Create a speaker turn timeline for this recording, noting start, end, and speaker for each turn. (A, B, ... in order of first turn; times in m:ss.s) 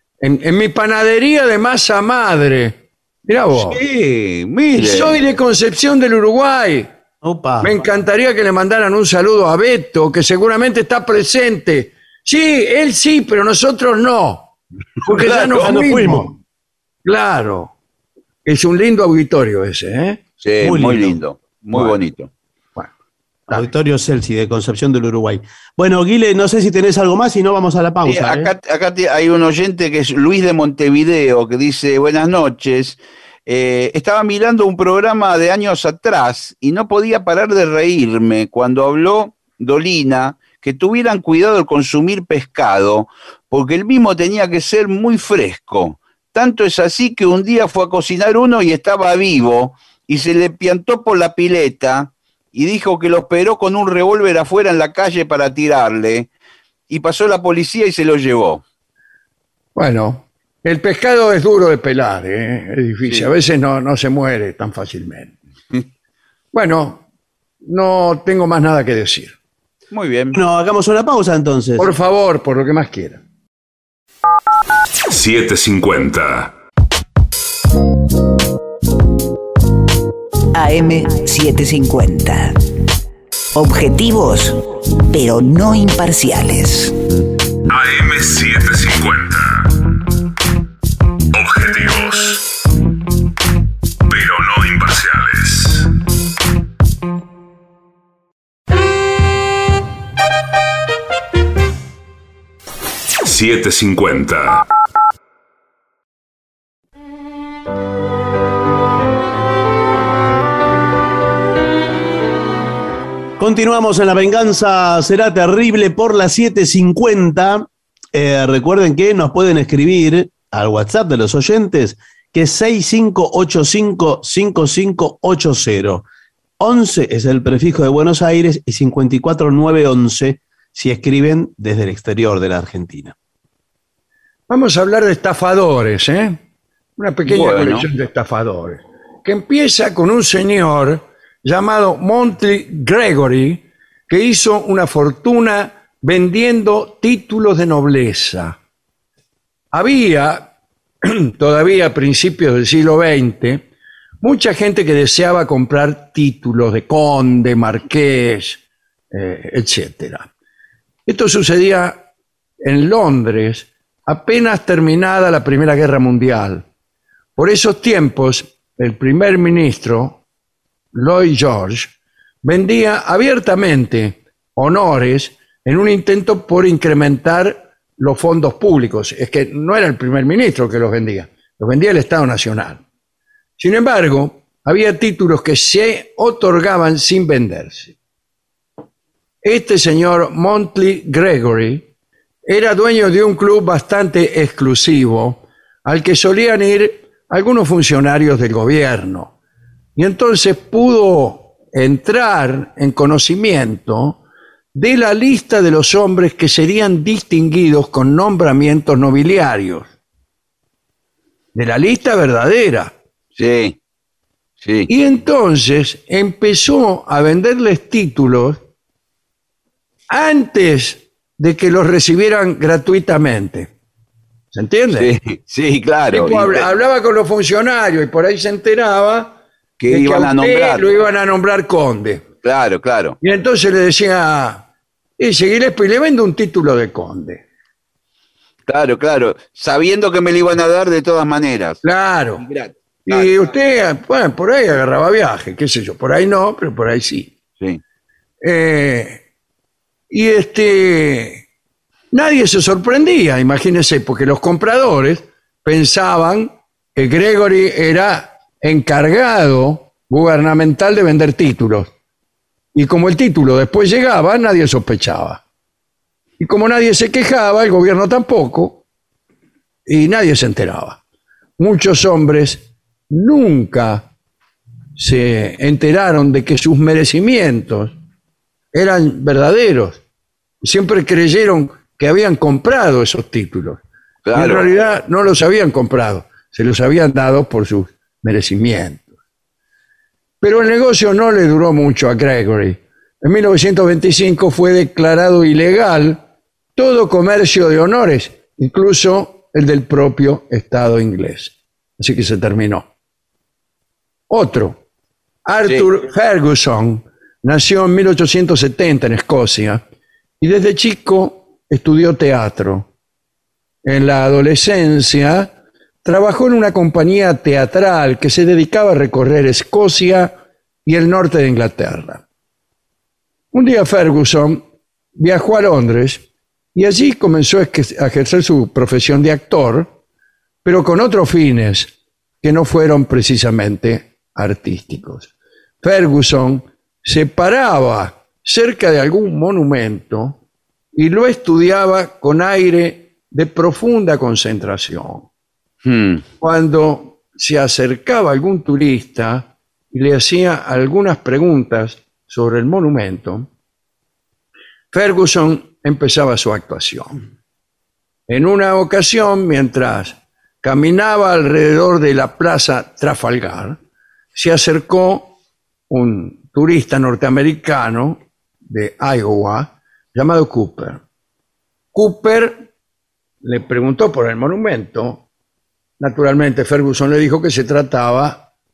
0:00.2-0:03.8 A
0:03.5-0:05.2 B
0:04.8-0:06.9 A
0:07.2-0:07.8 C
0:07.6-0:14.5 A
0:15.0-0:16.4 A
0:15.2-0:16.3 C
0:15.3-0:15.6 B
0:17.0-0:17.7 A
0:18.5-0:20.2 A
0:20.4-0:22.3 B
0:20.6-0:21.2 C
0:23.5-0:28.5 C
0:28.0-0:56.3 B
0:56.9-0:58.6 B
0:59.8-1:05.3 A
1:03.0-1:03.3 B
1:06.5-1:07.0 A
1:07.6-1:09.4 A
1:09.9-1:10.4 B
1:10.3-1:11.9 C
1:11.8-1:13.2 A
1:15.1-1:16.5 D
1:20.5-1:22.6 E
1:23.6-1:27.0 E
1:27.7-1:29.7 D
1:31.3-1:32.4 D
1:34.1-1:35.9 D
1:43.2-1:44.7 D
1:53.4-2:06.0 C
2:06.6-2:13.2 C
2:14.5-2:16.4 A
2:17.0-2:28.6 A
2:17.3-2:17.9 B
2:29.7-2:33.7 A
2:34.2-2:40.3 A
2:41.1-2:42.1 A
2:42.6-2:46.7 A
2:47.4-2:50.2 A
2:50.9-3:02.8 A
3:03.6-3:08.0 A
3:09.4-3:11.9 A
3:12.4-3:19.4 A
3:20.0-3:24.2 A
3:24.7-3:29.9 A
3:31.5-3:32.9 A
3:33.4-3:33.8 B
3:34.6-3:34.9 B
3:34.9-3:38.6 A
3:40.1-3:43.7 A
3:44.5-3:45.1 A
3:44.9-3:46.6 B
3:46.1-3:49.4 A
3:49.8-3:50.9 B
3:49.9-3:52.3 A
3:52.4-3:53.2 B
3:53.2-3:54.6 A
3:55.2-3:57.4 A
3:58.7-4:01.8 B
4:01.8-4:02.4 A
4:02.4-4:03.4 B
4:03.1-4:07.4 A
4:08.4-4:09.2 A
4:10.1-4:11.4 A
4:12.1-4:21.9 A
4:22.7-4:25.4 A
4:26.4-4:28.8 A
4:29.9-4:31.0 A
4:31.6-4:34.1 A
4:35.0-4:38.0 A
4:38.7-4:40.0 A
4:40.6-4:43.8 A
4:44.2-4:44.7 B
4:44.3-4:49.1 A
4:50.4-4:56.2 A
4:56.8-5:02.9 A
5:04.3-5:04.8 A
5:05.5-5:09.8 A
5:10.4-5:12.9 A
5:13.8-5:15.5 A
5:16.0-5:22.2 A
5:23.5-5:24.6 A
5:25.2-5:29.9 A
5:30.6-5:35.3 A
5:35.8-5:40.4 A
5:40.9-5:45.3 A
5:45.8-5:46.2 B
5:46.4-5:53.5 A
5:54.9-5:57.2 A
5:58.3-6:03.8 A
6:04.3-6:05.4 A
6:05.9-6:11.0 A
6:11.9-6:12.7 A
6:13.4-6:15.2 A
6:16.0-6:18.5 A